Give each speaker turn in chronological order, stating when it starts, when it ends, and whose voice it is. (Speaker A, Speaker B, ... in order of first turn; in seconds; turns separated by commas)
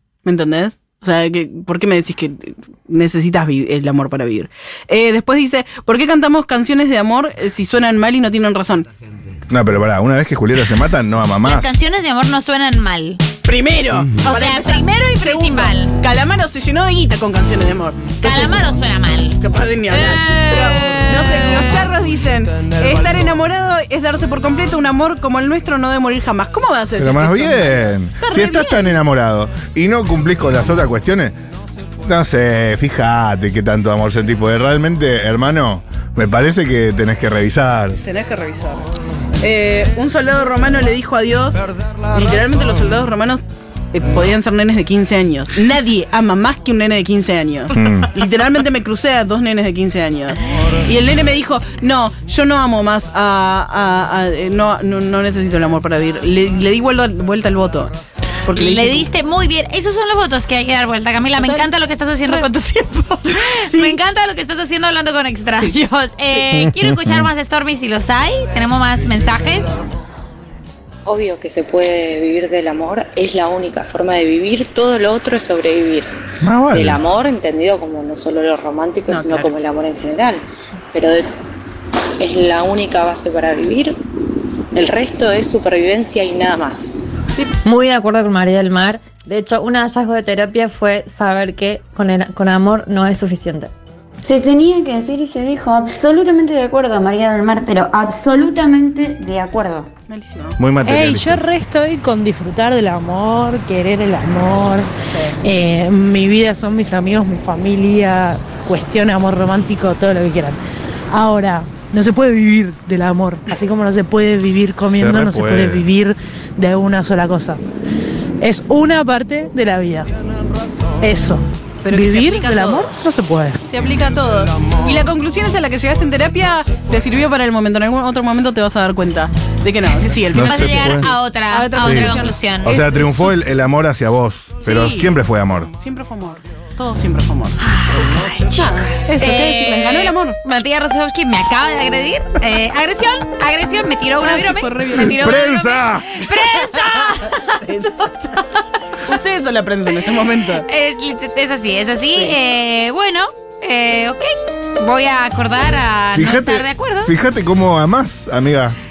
Speaker A: 0.2-8.9, Speaker B: 9.5-11.8, Speaker C: 11.4-13.2, Speaker A: 13.4-18.7, Speaker C: 14.2-15.9, Speaker C: 18.2-19.4, Speaker A: 19.4-29.0, Speaker C: 19.9-21.8, Speaker B: 27.0-31.4, Speaker B: 32.1-38.0, Speaker A: 38.0-38.8, Speaker A: 39.4-43.4, Speaker A: 43.9-57.9, Speaker B: 47.7-48.1, Speaker A: 58.5-59.0, Speaker C: 58.5-69.8, Speaker A: 61.4-61.7, Speaker A: 63.5-64.0, Speaker B: 66.5-67.3, Speaker D: 71.1-76.1, Speaker B: 76.4-77.0, Speaker D: 76.7-80.4, Speaker A: 79.1-79.5, Speaker D: 80.9-81.2, Speaker D: 82.2-83.9, Speaker D: 84.7-86.9, Speaker E: 87.7-93.7, Speaker F: 94.2-99.9, Speaker A: 100.1-100.6, Speaker B: 100.6-101.5, Speaker G: 100.8-104.9, Speaker A: 105.1-105.4, Speaker G: 105.4-110.6, Speaker G: 111.1-117.6, Speaker B: 114.9-115.9, Speaker G: 118.4-120.1, Speaker G: 121.0-123.6, Speaker A: 121.8-123.0, Speaker A: 123.7-133.4, Speaker B: 130.3-131.1, Speaker C: 130.4-132.8, Speaker B: 131.8-135.7, Speaker A: 134.6-135.2, Speaker A: 135.7-137.6, Speaker C: 137.6-148.6, Speaker A: 138.5-140.4, Speaker A: 144.2-145.4, Speaker B: 145.2-146.1, Speaker A: 147.7-147.9, Speaker A: 149.1-150.7, Speaker C: 150.7-157.1, Speaker B: 156.2-158.8